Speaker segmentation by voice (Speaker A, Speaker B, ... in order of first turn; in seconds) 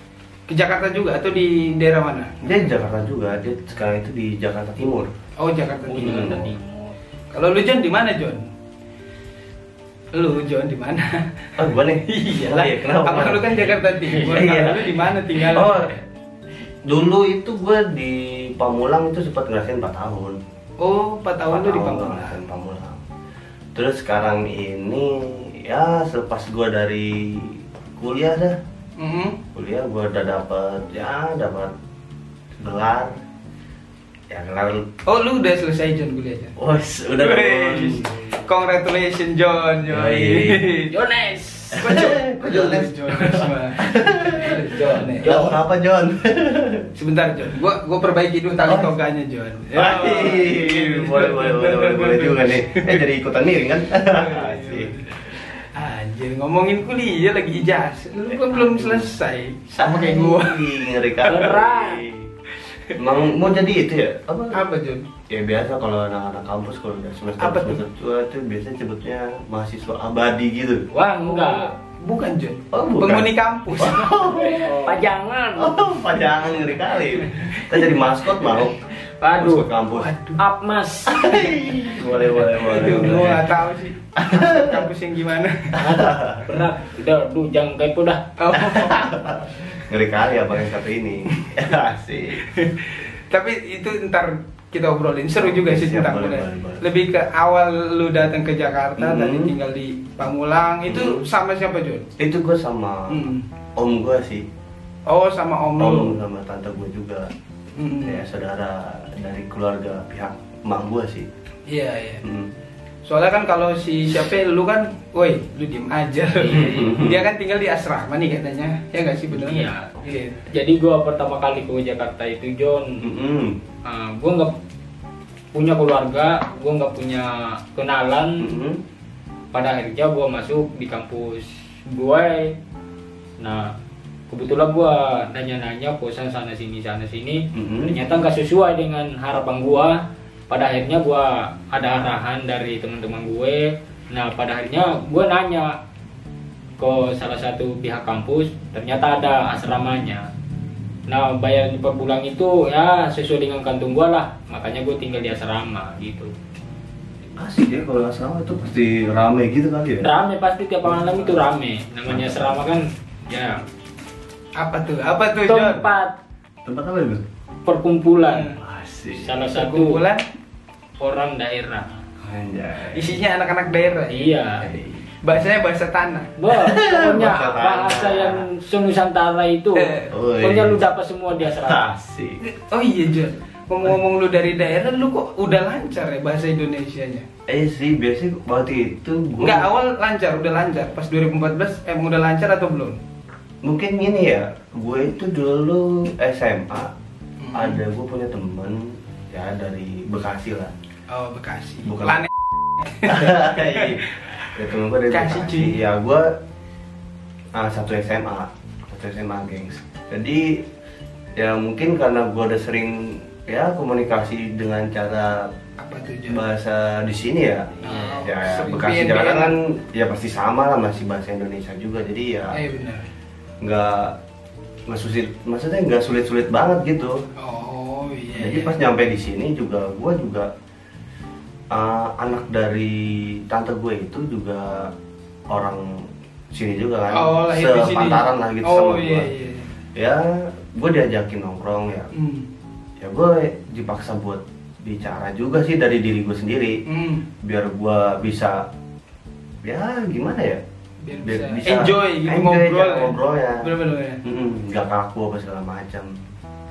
Speaker A: 0.5-2.7, 5.4-6.5, 7.3-8.4, 10.1-11.2, 12.1-15.8, 20.8-22.4, 29.0-29.4, 35.0-36.5, 37.2-40.9, 41.8-45.4, 46.9-53.0, 54.1-60.7, 64.5-65.1, 67.4-67.8, 71.2-74.3, 79.9-80.4, 82.6-85.8, 88.4-89.2, 92.4-102.0, 103.1-103.4, 105.1-106.2, 107.8-108.2, 111.7-112.2, 113.0-120.4, 164.6-165.9, 168.3-168.6, 169.4-170.2, 172.9-174.4, 175.2-176.3, 179.7-180.1, 182.4-187.2, 189.4-193.0, 197.4-197.8, 201.1-204.3, 205.1-205.8, 215.8-216.4, 217.8-219.5, 222.5-223.1, 227.4-228.8, 237.1-239.7, 242.1-242.5, 246.8-247.2, 251.0-254.2
Speaker B: 2.4-5.1, 6.0-6.4, 11.6-13.6, 14.3-14.8, 15.5-15.9, 16.8-20.4, 21.5-23.0, 23.7-28.6, 29.5-31.7, 32.6-33.1, 34.3-34.8, 36.6-38.1, 39.9-40.6, 41.7-46.9, 48.6-48.9, 49.7-54.9, 58.3-59.1, 59.8-62.3, 63.0-64.6, 65.3-70.8, 72.7-74.9, 75.5-78.8, 79.4-80.1, 81.1-83.4, 84.2-84.7, 85.8-86.4, 88.5-92.4, 95.4-96.8, 99.0-99.5, 100.8-101.2, 102.2-103.2, 103.8-104.4, 105.8-107.3, 108.0-111.3, 112.2-112.5, 116.5-117.2, 123.0-123.5, 128.4-128.8, 137.5-138.0, 157.4-160.1, 160.8-161.4, 162.1-162.8, 166.6-167.2, 168.6-169.3, 172.2-173.2, 174.6-175.0, 176.5-178.4, 180.1-180.8, 181.4-182.4, 187.5-189.7, 193.6-196.9, 197.5-200.7, 201.8-202.2, 203.0-206.3, 207.5-210.6, 211.4-215.5, 216.3-222.6, 223.6-224.1, 224.9-227.2, 228.3-230.5, 231.7-234.9, 235.5-239.3, 239.9-242.1, 243.0-246.7, 247.4-248.6, 249.6-250.6, 251.2-253.6, 254.2-256.1
Speaker C: 5.8-6.9, 13.5-15.2, 40.9-41.9, 44.5-45.6, 61.2-62.0, 70.9-71.7, 74.3-75.8, 79.2-79.7, 80.4-83.3, 85.8-88.2, 116.4-117.0, 119.3-120.0, 120.5-122.8, 123.8-124.5, 125.5-128.5, 129.5-132.5, 133.4-133.7, 134.3-139.9, 140.5-145.8, 146.8-150.2, 151.1-156.3, 160.0-163.6, 165.4-166.1, 167.7-168.5, 169.1-170.0, 171.0-171.9, 174.1-174.6, 176.4-181.8